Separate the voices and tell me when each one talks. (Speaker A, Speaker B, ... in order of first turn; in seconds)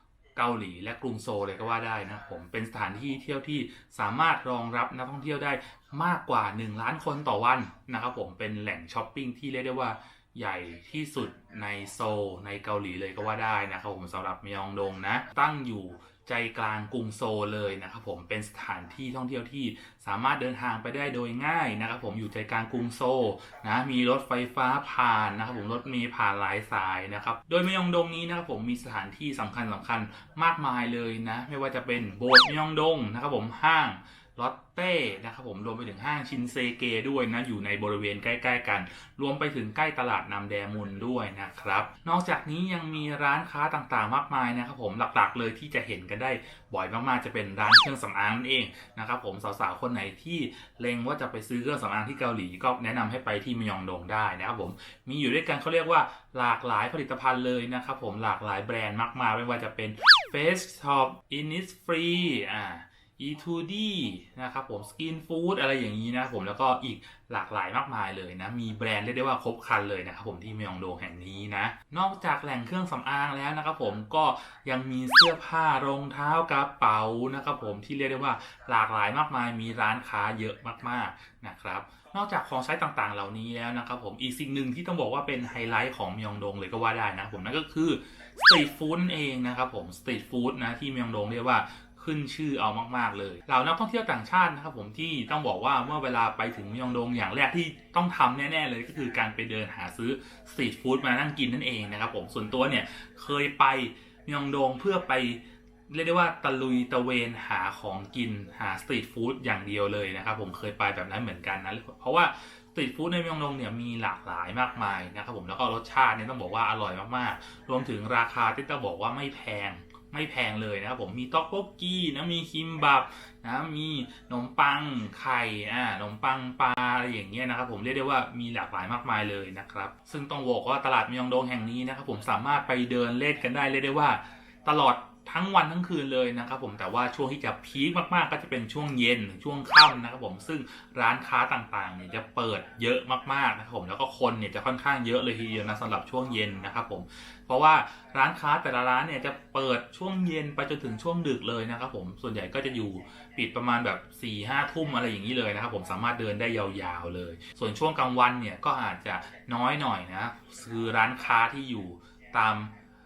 Speaker A: 0.3-162.7